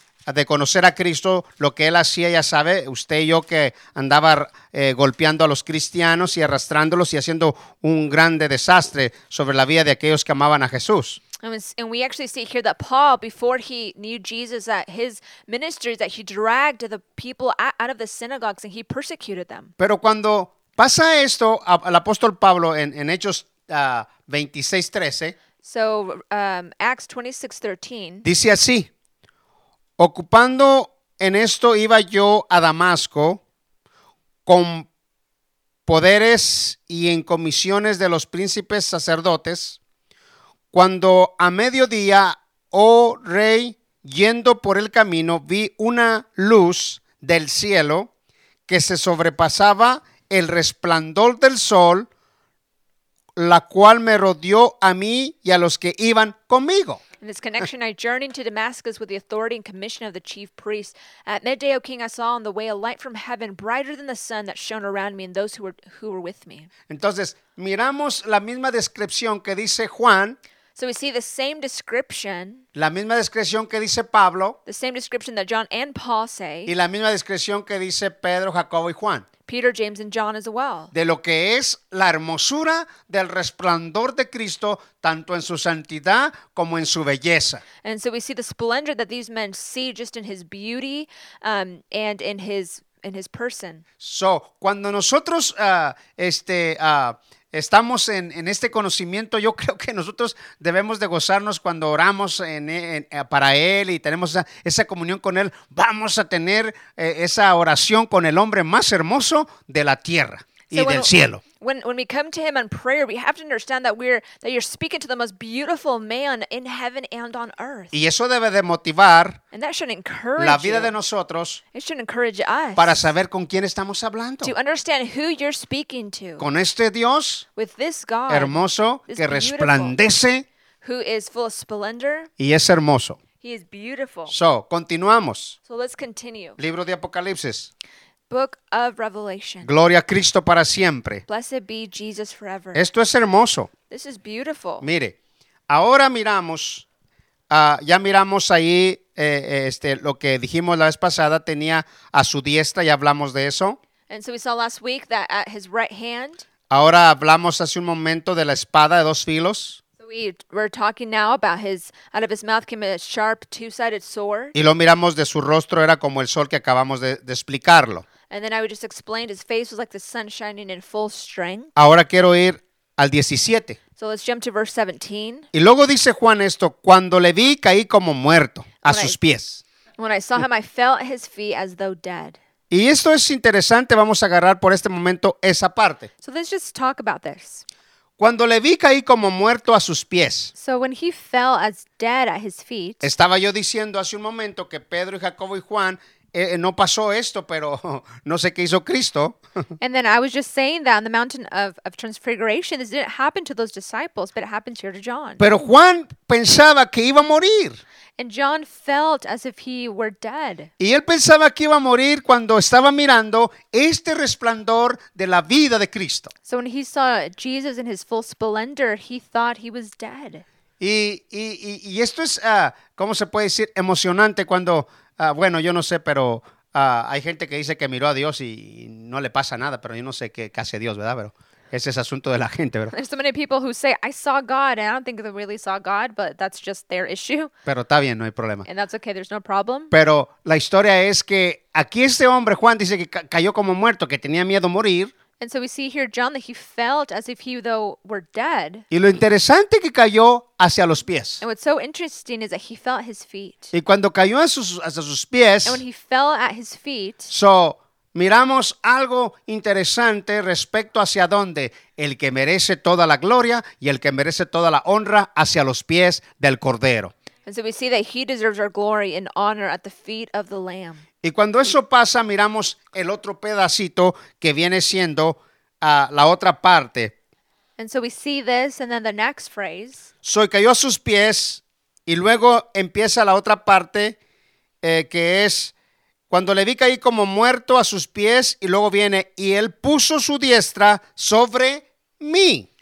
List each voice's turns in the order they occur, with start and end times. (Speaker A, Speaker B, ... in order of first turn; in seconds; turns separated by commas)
Speaker A: 0.3-11.2, Speaker B: 11.4-19.7, Speaker A: 19.8-25.3, Speaker B: 25.6-28.3, Speaker A: 28.2-28.9, Speaker A: 30.0-33.4, Speaker A: 34.5-34.9, Speaker A: 35.9-39.8, Speaker A: 40.7-48.1, Speaker A: 48.7-52.1, Speaker A: 53.4-57.0, Speaker B: 57.2-66.7, Speaker A: 66.9-70.4, Speaker B: 70.8-72.6, Speaker A: 72.7-74.6, Speaker B: 74.7-76.7, Speaker A: 76.7-79.2, Speaker B: 79.5-80.9, Speaker A: 80.9-87.6, Speaker B: 87.8-93.8, Speaker A: 94.0-111.4, Speaker B: 110.7-117.9, Speaker A: 117.9-119.4, Speaker B: 119.5-120.9, Speaker A: 120.4-121.6, Speaker B: 121.7-123.1, Speaker A: 122.8-124.5, Speaker B: 124.4-126.5, Speaker A: 126.4-127.5, Speaker B: 127.5-129.9, Speaker A: 128.3-130.4, Speaker B: 130.8-132.3, Speaker A: 132.4-133.2, Speaker B: 133.4-134.3, Speaker A: 134.3-135.6, Speaker B: 135.6-136.6, Speaker A: 136.6-137.7, Speaker B: 138.3-139.7, Speaker A: 139.6-141.2, Speaker B: 141.3-142.8, Speaker A: 142.7-143.7, Speaker B: 143.9-144.9, Speaker A: 144.8-145.1, Speaker A: 145.7-146.8, Speaker A: 147.5-153.8, Speaker B: 154.1-156.4, Speaker A: 156.7-159.8, Speaker B: 160.0-164.5, Speaker A: 164.5-168.0, Speaker B: 168.3-171.7, Speaker A: 171.8-173.8, Speaker B: 173.9-175.5, Speaker A: 175.5-179.6, Speaker B: 178.8-179.2, Speaker B: 180.0-182.4, Speaker A: 182.7-186.1, Speaker B: 186.2-187.6, Speaker A: 188.2-190.5, Speaker B: 190.5-193.1, Speaker A: 193.0-199.4, Speaker B: 199.8-205.4, Speaker A: 205.4-207.8, Speaker B: 208.2-210.7, Speaker A: 210.8-216.3, Speaker B: 216.4-220.4, Speaker A: 220.8-232.9, Speaker B: 232.9-237.5, Speaker A: 237.7-238.7, Speaker B: 238.7-239.9, Speaker A: 239.9-245.1, Speaker B: 245.4-248.8, Speaker A: 248.9-251.4, Speaker B: 251.4-253.7, Speaker A: 253.7-255.8, Speaker B: 255.6-257.3, Speaker A: 257.3-267.1, Speaker B: 267.4-271.0, Speaker A: 271.2-277.1, Speaker B: 277.8-280.1, Speaker A: 280.2-284.2, Speaker A: 284.8-285.7, Speaker A: 286.3-292.7